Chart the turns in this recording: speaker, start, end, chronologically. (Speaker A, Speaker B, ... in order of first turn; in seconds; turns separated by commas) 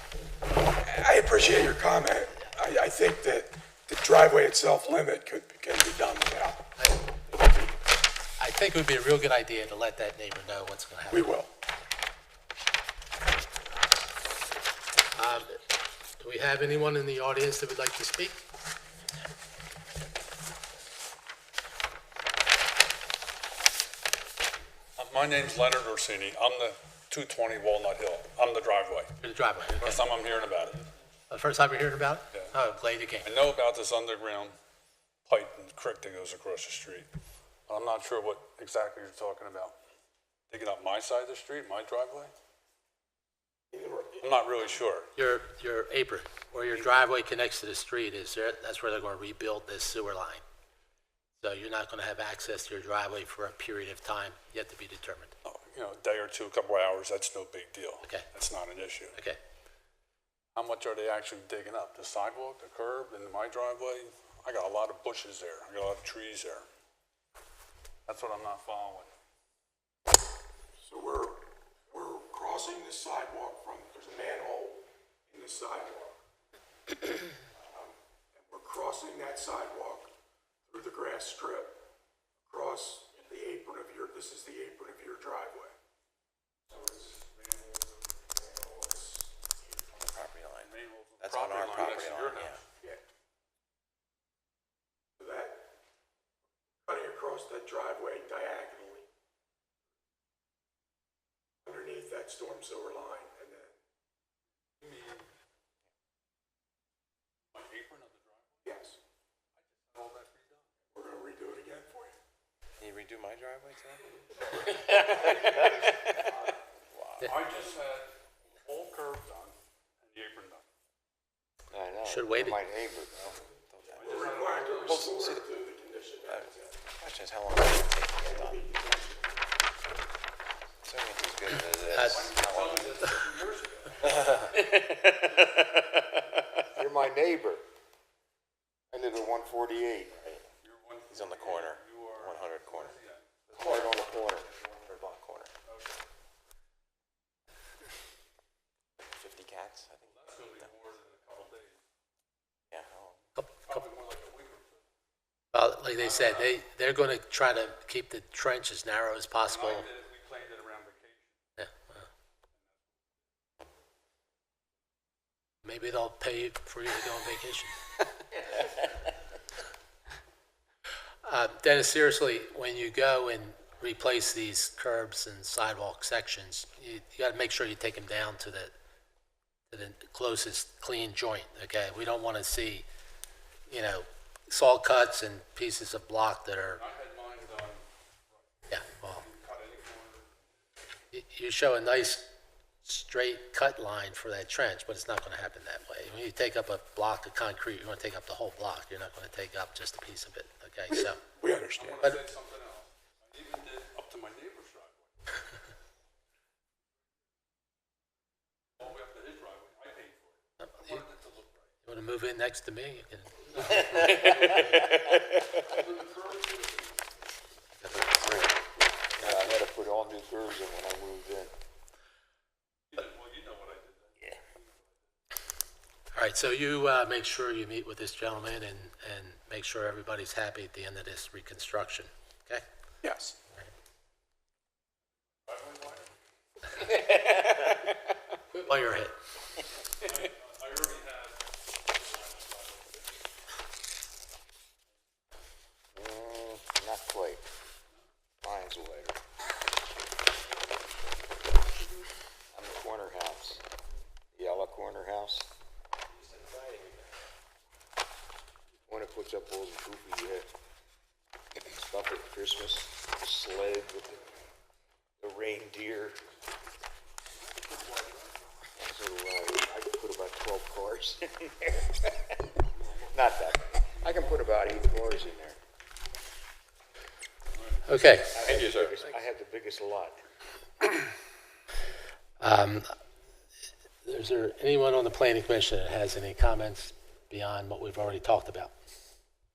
Speaker A: 0.7-6.7, Speaker A: 7.3-7.8, Speaker B: 8.4-11.3, Speaker A: 11.1-11.5, Speaker B: 15.1-15.6, Speaker B: 16.2-18.4, Speaker C: 25.0-29.2, Speaker B: 29.2-30.0, Speaker C: 29.8-30.8, Speaker B: 31.3-33.3, Speaker C: 33.2-34.5, Speaker C: 35.3-37.1, Speaker C: 37.7-39.8, Speaker C: 40.5-42.3, Speaker A: 43.7-44.2, Speaker C: 44.2-45.1, Speaker B: 45.2-50.4, Speaker B: 51.4-55.3, Speaker C: 55.5-59.2, Speaker C: 60.5-66.7, Speaker C: 68.1-69.1, Speaker A: 70.8-76.2, Speaker A: 77.6-80.1, Speaker A: 80.7-81.8, Speaker A: 82.5-85.8, Speaker A: 86.7-87.2, Speaker C: 86.9-88.1, Speaker A: 88.3-89.3, Speaker D: 90.0-92.6, Speaker C: 90.6-92.6, Speaker A: 95.2-95.7, Speaker A: 96.9-99.1, Speaker A: 101.6-103.8, Speaker C: 104.8-105.3, Speaker C: 107.5-108.6, Speaker A: 108.6-109.0, Speaker C: 109.6-110.7, Speaker A: 110.9-112.2, Speaker D: 112.8-114.0, Speaker C: 114.5-116.6, Speaker D: 114.6-116.2, Speaker D: 116.9-117.3, Speaker C: 117.2-120.7, Speaker E: 121.7-123.2, Speaker B: 122.0-122.6, Speaker D: 123.2-124.2, Speaker C: 123.9-125.1, Speaker A: 124.0-126.8, Speaker D: 124.8-125.5, Speaker D: 126.2-128.7, Speaker A: 128.2-129.4, Speaker D: 130.8-133.2, Speaker C: 131.9-134.8, Speaker B: 131.9-132.4, Speaker D: 134.0-134.7, Speaker E: 136.7-137.6, Speaker E: 138.9-140.2, Speaker D: 140.1-140.4, Speaker C: 140.6-144.5, Speaker D: 141.1-143.0, Speaker E: 143.6-144.5, Speaker D: 144.5-145.5, Speaker C: 145.7-146.0, Speaker D: 149.1-150.7, Speaker C: 150.0-151.8, Speaker D: 152.7-153.2, Speaker B: 153.3-153.8, Speaker C: 153.7-154.8, Speaker B: 155.5-159.9, Speaker C: 156.0-156.6, Speaker C: 159.4-161.4, Speaker B: 161.6-162.1, Speaker C: 162.5-163.0, Speaker B: 165.6-167.8, Speaker B: 171.2-178.7, Speaker B: 179.7-182.8, Speaker B: 183.7-186.8, Speaker C: 186.8-188.4, Speaker B: 188.7-189.2, Speaker C: 189.0-190.4, Speaker B: 191.1-192.3, Speaker B: 192.8-201.2, Speaker A: 201.4-202.0, Speaker C: 201.8-205.3, Speaker C: 208.8-211.7, Speaker B: 210.6-211.0, Speaker B: 211.8-214.4, Speaker C: 213.4-217.0, Speaker E: 213.9-215.2, Speaker B: 217.8-218.5, Speaker E: 219.2-221.5, Speaker C: 222.9-225.1, Speaker B: 226.1-232.6, Speaker A: 233.0-233.4, Speaker C: 235.5-236.1, Speaker B: 238.5-239.2, Speaker C: 240.0-243.2, Speaker E: 245.9-247.4, Speaker E: 248.4-249.2, Speaker E: 252.5-253.7, Speaker E: 254.3-255.5, Speaker C: 256.2-257.0, Speaker E: 258.9-260.5, Speaker E: 261.6-264.2, Speaker E: 265.2-266.2, Speaker C: 267.5-268.4, Speaker E: 268.8-272.0, Speaker C: 272.8-273.2, Speaker E: 273.1-275.6, Speaker C: 273.9-274.2, Speaker C: 277.5-278.9, Speaker B: 277.9-278.4, Speaker E: 278.3-280.2, Speaker B: 282.4-282.9, Speaker B: 284.0-288.7